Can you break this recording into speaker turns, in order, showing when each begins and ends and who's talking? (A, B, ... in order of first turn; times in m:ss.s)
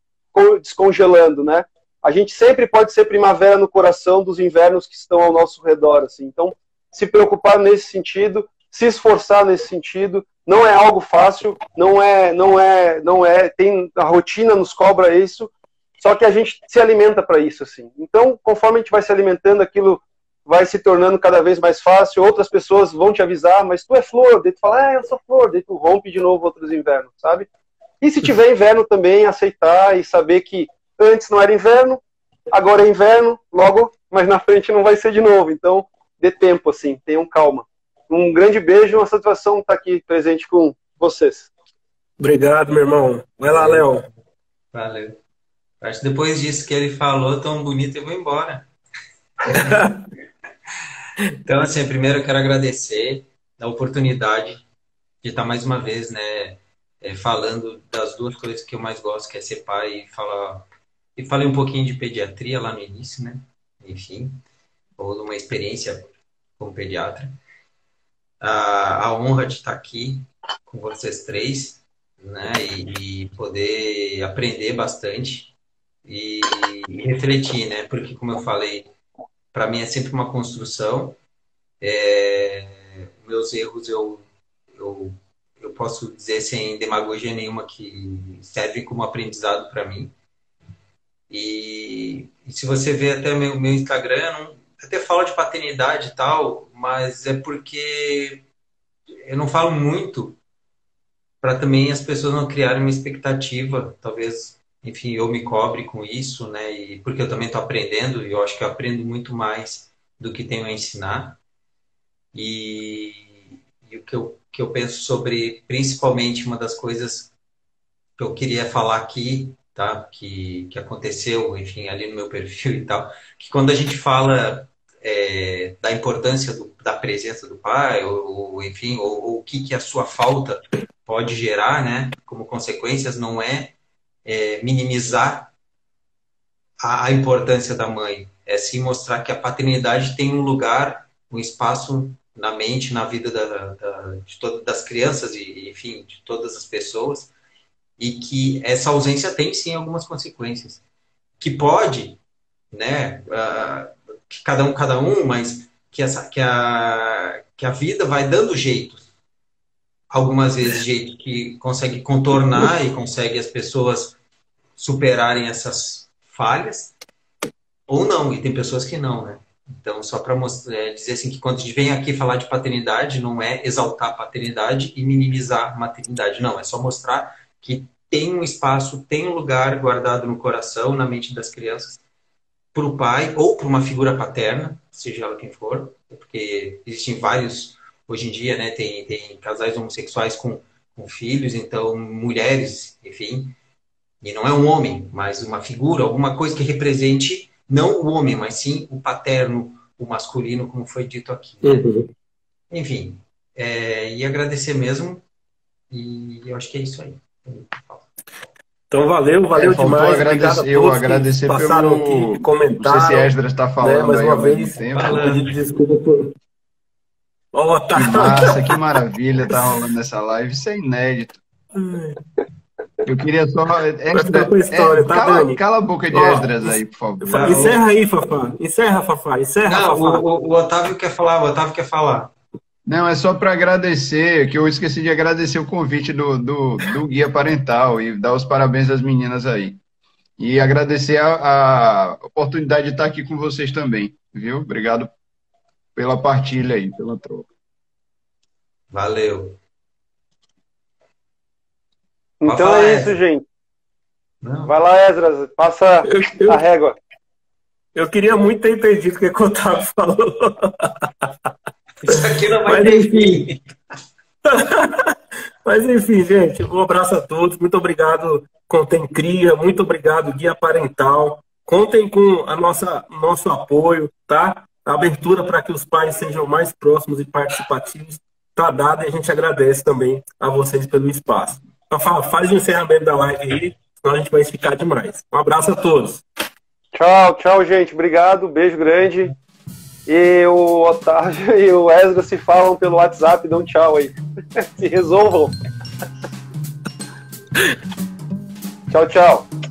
0:00.3-0:27.5 A
0:28.0-0:32.0 A
0:32.5-0:41.5 A
0:42.2-0:44.1 B
0:43.6-0:44.0 C
0:44.7-0:45.2 C
0:45.8-0:48.7 C
0:49.5-0:49.7 C
0:49.5-0:50.0 B
0:51.4-0:54.6 C
0:55.2-1:04.4 C
1:05.0-1:06.0 C
1:06.6-1:07.4 C
1:08.4-1:15.5 C
1:16.0-1:18.9 C
1:19.5-1:21.2 C
1:21.8-1:30.1 C
1:31.3-1:38.4 C
1:39.2-1:40.4 C
1:41.4-1:51.4 C
1:52.3-1:57.3 C
1:58.2-2:15.5 C
2:16.8-2:27.3 C
2:28.0-2:30.8 C
2:31.4-2:32.2 C
2:32.7-2:39.0 C
2:40.1-2:44.2 C
2:44.8-2:47.0 C
2:47.9-3:02.0 C
3:02.7-3:13.6 C
3:14.2-3:21.9 C
3:21.6-3:22.1 B
3:22.7-3:25.2 C
3:25.9-3:28.1 C
3:28.9-3:33.3 B
3:29.6-3:35.2 D
3:33.8-3:36.3 B
3:34.9-3:35.5 C
3:37.5-3:38.8 B
3:38.0-3:41.4 D
3:41.7-3:42.2 B
3:43.1-3:47.8 D
3:44.1-3:45.6 B
3:46.1-3:50.2 B
3:47.3-3:47.7 C
3:49.6-3:52.3 C
3:52.9-3:59.8 D
4:00.4-4:05.1 D
4:06.0-4:07.5 D
4:08.9-4:09.6 C
4:12.4-4:13.4 A
4:12.5-4:13.2 C
4:14.4-4:14.7 C
4:14.7-4:17.0 A
4:16.1-4:16.6 B
4:18.0-4:21.1 B
4:22.0-4:23.6 C
4:22.7-4:23.5 B
4:24.5-4:46.2 B
4:46.9-4:49.4 A
4:50.1-4:55.6 A
4:58.9-4:59.5 A